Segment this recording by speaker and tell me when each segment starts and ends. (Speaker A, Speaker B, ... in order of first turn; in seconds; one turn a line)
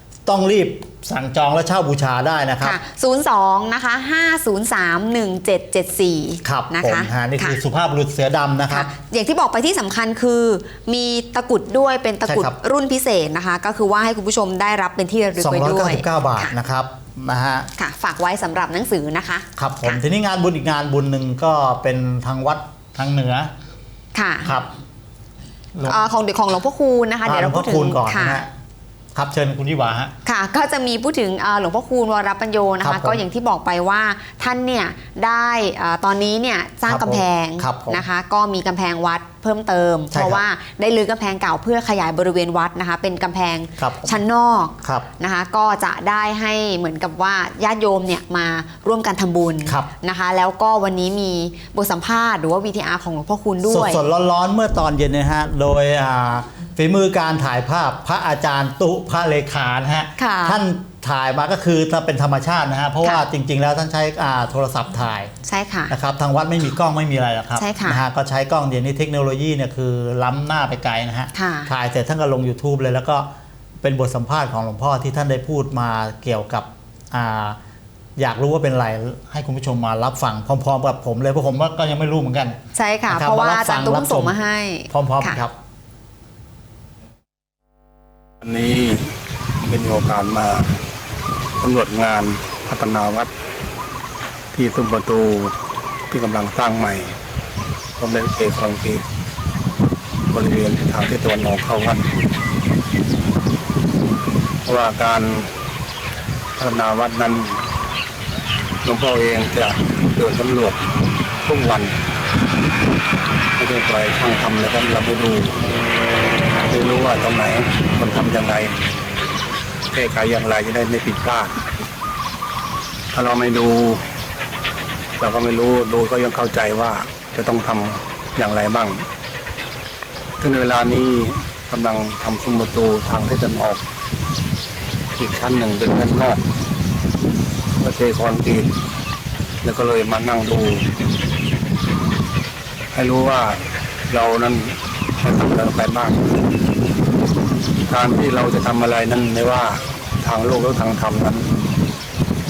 Speaker A: 0.3-2.8
Speaker B: 2.6-7.6
Speaker A: 6.4-8.9
Speaker B: 8.7-16.5
Speaker A: 12.3-12.5
Speaker A: 15.4-17.7
Speaker B: 17.8-20.0
Speaker A: 19.6-23.5
Speaker B: 24.1-24.6
Speaker A: 24.4-24.7
Speaker A: 25.7-26.1
Speaker B: 25.8-28.4
Speaker A: 27.2-28.5
Speaker A: 29.1-30.1
Speaker B: 30.2-54.0
Speaker A: 32.8-33.2
Speaker A: 36.9-38.0
Speaker A: 40.1-40.4
Speaker A: 43.8-44.2
Speaker A: 53.6-65.3
Speaker B: 60.2-60.6
Speaker B: 65.4-65.9
Speaker A: 65.9-73.3
Speaker B: 67.6-68.0
Speaker B: 71.3-71.7
Speaker A: 73.8-77.6
Speaker A: 78.2-82.6
Speaker B: 82.7-85.4
Speaker A: 83.1-84.4
Speaker A: 84.9-85.5
Speaker C: 88.4-90.8
Speaker C: 91.6-93.3
Speaker C: 94.5-95.5
Speaker C: 96.1-97.2
Speaker C: 98.0-99.0
Speaker C: 100.3-102.1
Speaker C: 104.7-105.5
Speaker C: 106.6-107.6
Speaker C: 108.8-110.8
Speaker C: 111.4-112.0
Speaker C: 113.6-115.6
Speaker C: 116.5-118.8
Speaker C: 119.9-121.7
Speaker C: 123.1-124.1
Speaker C: 125.2-129.1
Speaker C: 130.4-133.8
Speaker C: 135.2-136.4
Speaker C: 137.8-138.7
Speaker C: 139.6-140.9
Speaker C: 142.9-146.3
Speaker C: 147.9-151.6